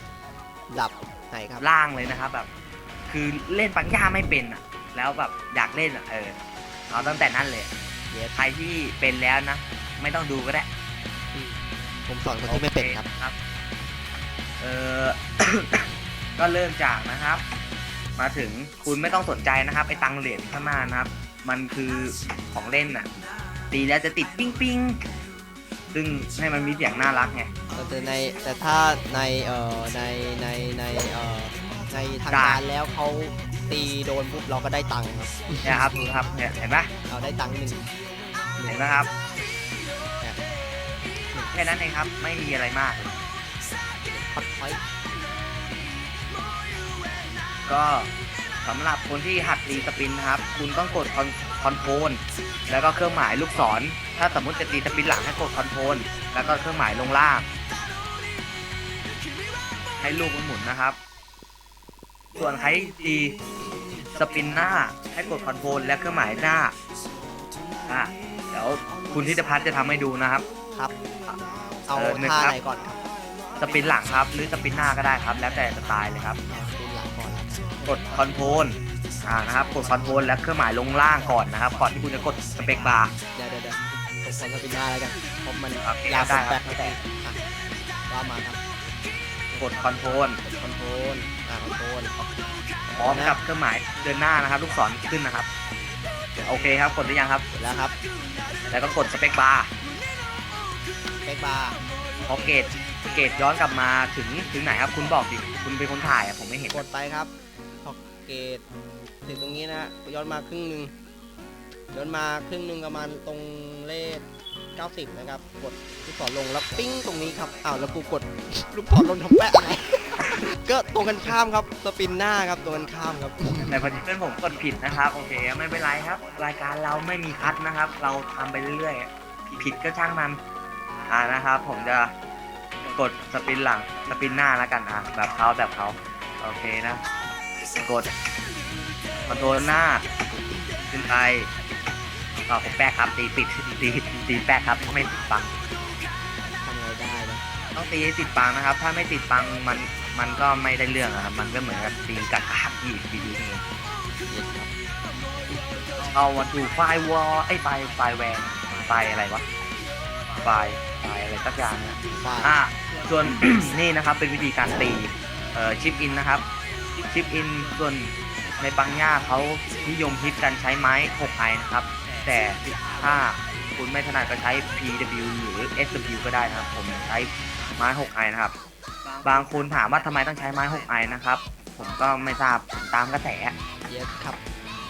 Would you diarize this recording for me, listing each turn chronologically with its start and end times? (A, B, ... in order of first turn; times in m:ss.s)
0:00.7-0:01.7 A
0:01.6-0:02.5 B
0:03.1-0:06.4 B
0:06.9-0:07.7 B
0:06.9-0:07.3 A
0:08.1-0:08.4 A
0:08.4-0:10.7 B
0:11.3-0:13.1 A
0:12.5-0:13.4 B
0:14.6-0:15.9 B
0:16.4-0:17.4 B
0:18.2-0:23.1 B
0:23.7-0:25.0 B
0:25.9-0:27.5 B
0:27.7-0:35.8 A
0:32.3-0:32.6 B
0:35.6-0:36.9 B
0:37.0-0:37.9 A
0:38.6-0:38.9 A
0:38.7-0:39.1 B
0:41.5-0:43.2 B
0:44.1-0:44.8 A
0:47.7-0:48.1 B
0:48.6-0:57.4 B
1:00.0-1:01.0 B
1:02.4-1:03.4 B
1:04.0-1:06.8 B
1:07.9-1:10.5 B
1:11.9-1:13.0 A
1:11.9-1:12.6 B
1:13.6-1:16.4 B
1:16.5-1:18.6 A
1:17.8-1:23.2 B
1:23.3-1:27.4 A
1:25.8-1:27.0 B
1:28.1-1:28.6 A
1:29.5-1:32.2 A
1:29.6-1:30.4 B
1:32.9-1:33.4 A
1:33.0-1:35.5 B
1:36.4-1:36.7 A
1:36.4-1:37.4 B
1:37.5-1:38.0 A
1:38.7-1:39.7 B
1:41.2-1:41.8 A
1:42.2-1:46.8 B
1:46.7-1:48.6 A
1:49.2-1:50.9 A
1:51.9-2:03.9 A
2:03.7-2:10.4 B
2:11.1-2:12.1 B
2:13.0-2:17.0 B
2:17.8-2:18.1 B
2:19.3-2:20.0 B
2:20.9-2:21.5 B
2:22.5-2:25.5 B
2:26.4-2:27.5 A
2:27.8-2:33.6 B
2:34.3-2:34.7 A
2:36.1-2:39.4 B
2:40.4-2:46.4 B
2:42.1-2:42.5 A
2:47.1-2:58.5 B
2:59.2-3:03.5 B
3:03.9-3:04.4 A